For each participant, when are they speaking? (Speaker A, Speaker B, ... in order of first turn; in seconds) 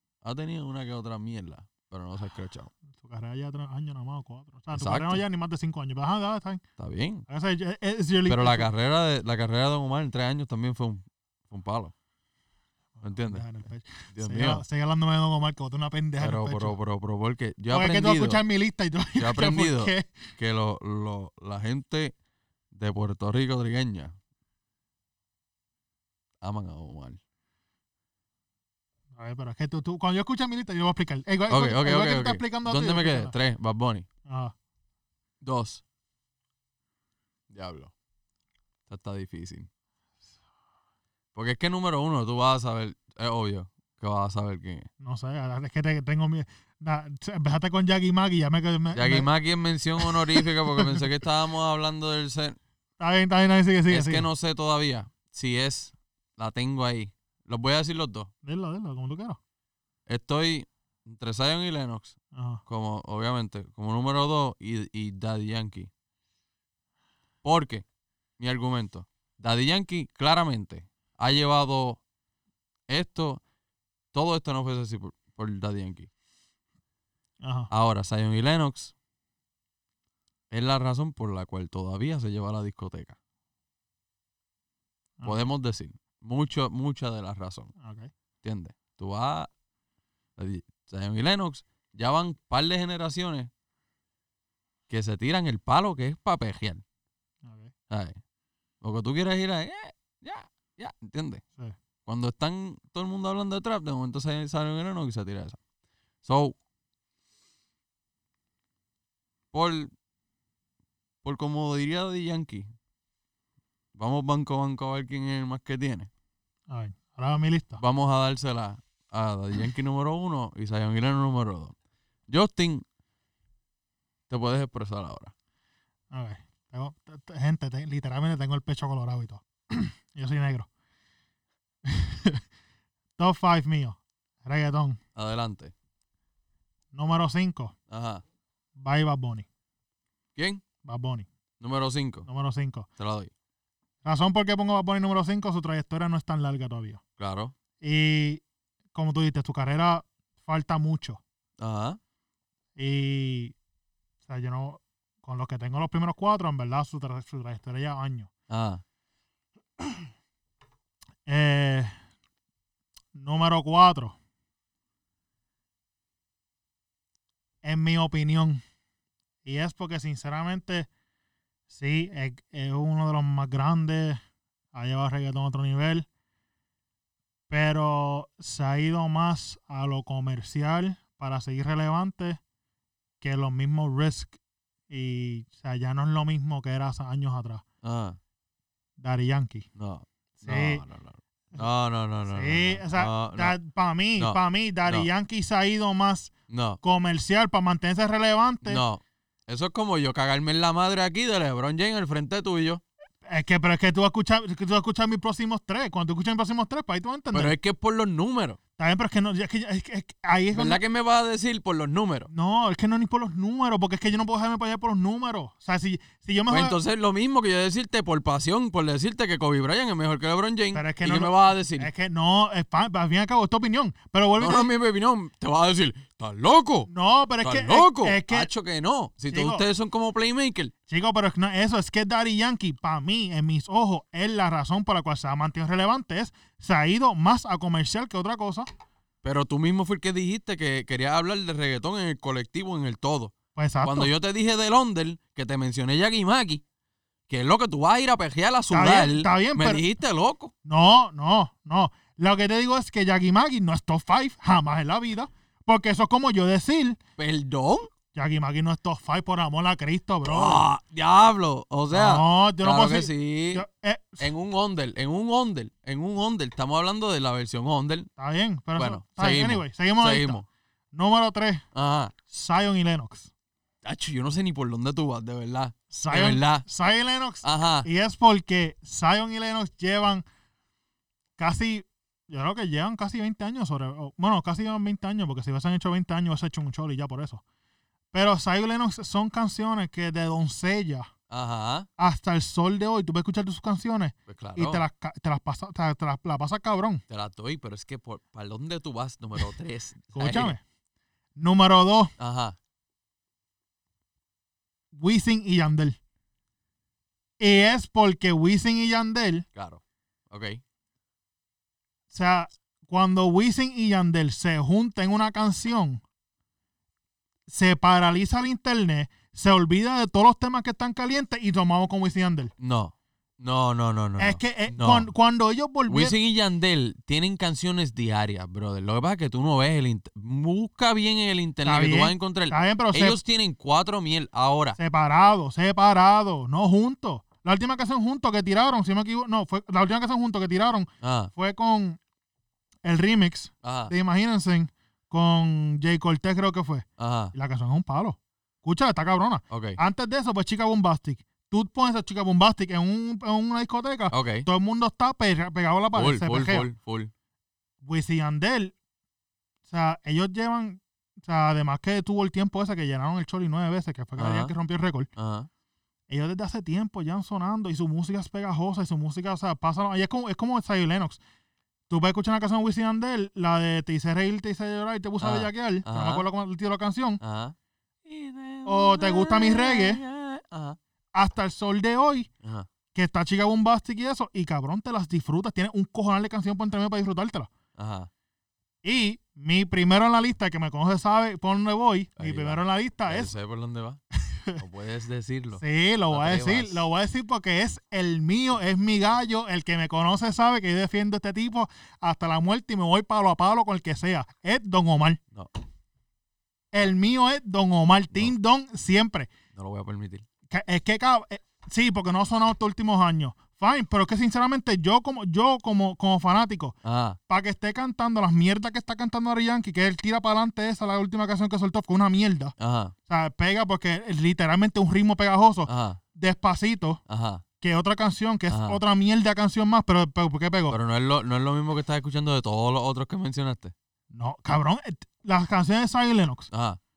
Speaker A: 0.2-2.7, 4.7-5.2, 6.8-7.3, 8.3-11.9, 13.0-13.4, 14.1-14.6, 16.2-18.4, 19.2-22.1, 22.7-24.1, 26.4-27.2, 31.5-34.1, 35.4-35.8, 37.5-37.9, 38.9-39.7, 41.4-44.9, 48.9-52.6, 53.9-58.3, 60.1-65.9, 67.4-67.8, 68.4-72.0, 72.9-73.4, 74.1-76.1, 77.7-78.9, 80.5-83.2, 85.2-87.7, 88.4-89.5, 90.4-93.5, 94.9-96.8, 97.9-98.2, 98.8-101.4, 102.1-105.6, 106.2-106.6, 109.5-109.9, 111.2-112.7, 114.0-116.1, 117.8-121.8, 122.3-122.8, 124.3-125.3, 135.2-135.7, 137.9-138.2, 140.4-140.6, 141.6-142.3, 143.0-143.3, 147.2-147.5, 151.6-152.0, 158.5-158.8, 187.8-188.2, 189.8-193.6, 194.2-195.1, 196.5-196.8, 198.7-202.8, 207.3-208.6, 210.5-212.3, 216.5-221.9, 224.4-226.9, 227.4-230.7, 239.2-246.6, 247.3-250.5, 257.2-257.9, 260.3-263.6, 264.2-268.1, 268.8-270.4, 271.7-272.1, 273.8-276.6, 277.4-277.9, 291.3-291.9, 294.3-294.8, 297.1-300.6, 302.2-302.6, 309.6-310.6, 322.6-325.1, 325.9-334.8, 341.0-341.3, 343.6-343.9, 347.0-347.3, 349.5-349.8, 354.1-354.5, 355.9-357.1, 364.2-364.5, 365.2-365.5, 375.2-376.3, 377.2-380.8, 387.8-388.1, 392.2-394.0, 394.6-396.9, 409.6-410.2, 416.8-417.2, 422.6-422.9, 425.7-426.0, 427.1-427.4, 428.5-428.8, 430.7-433.7, 436.5-436.8
Speaker B: 3.0-6.6, 7.3-8.7, 13.0-16.8, 17.7-20.3, 29.2-33.3, 34.3-34.5, 45.0-49.3, 50.0-51.0, 53.0-54.3, 58.4-59.4, 62.3-62.6, 77.4-77.7, 85.2-85.5, 87.8-88.1, 97.4-97.7, 116.7-117.8, 126.1-130.7, 131.9-132.4, 133.2-135.0, 136.9-137.8, 138.8-139.5, 140.8-141.3, 142.3-142.9, 144.0-147.0, 147.8-148.4, 148.9-151.2, 152.8-153.6, 154.3-158.3, 161.3-162.0, 163.2-164.2, 167.6-168.6, 169.4-170.9, 171.7-174.2, 174.7-176.1, 177.5-182.4, 183.2-184.4, 184.9-187.6, 189.0-189.7, 190.4-190.8, 192.3-198.8, 203.2-207.6, 208.8-210.8, 212.3-216.8, 220.7-224.7, 226.9-228.5, 229.3-229.7, 230.9-238.7, 243.6-244.1, 248.7-249.8, 250.7-257.0, 258.1-260.6, 261.9-264.3, 268.2-270.4, 270.9-271.6, 272.3-273.3, 275.9-280.2, 281.4-287.4, 288.1-291.1, 292.0-297.0, 300.1-300.6, 301.4-302.1, 304.9-306.0, 307.4-309.5, 312.1-316.0, 317.5-322.5, 324.2-326.1, 331.6-333.2, 334.8-342.0, 342.9-356.7, 357.8-358.7, 359.7-365.1, 366.1-371.2, 371.9-377.2, 378.7-380.0, 381.1-382.3, 382.9-387.5, 388.8-393.3, 394.3-394.6, 395.6-405.2, 406.7-409.3, 410.5-416.8, 417.3-422.6, 423.1-427.0, 427.6-430.8, 434.1-436.5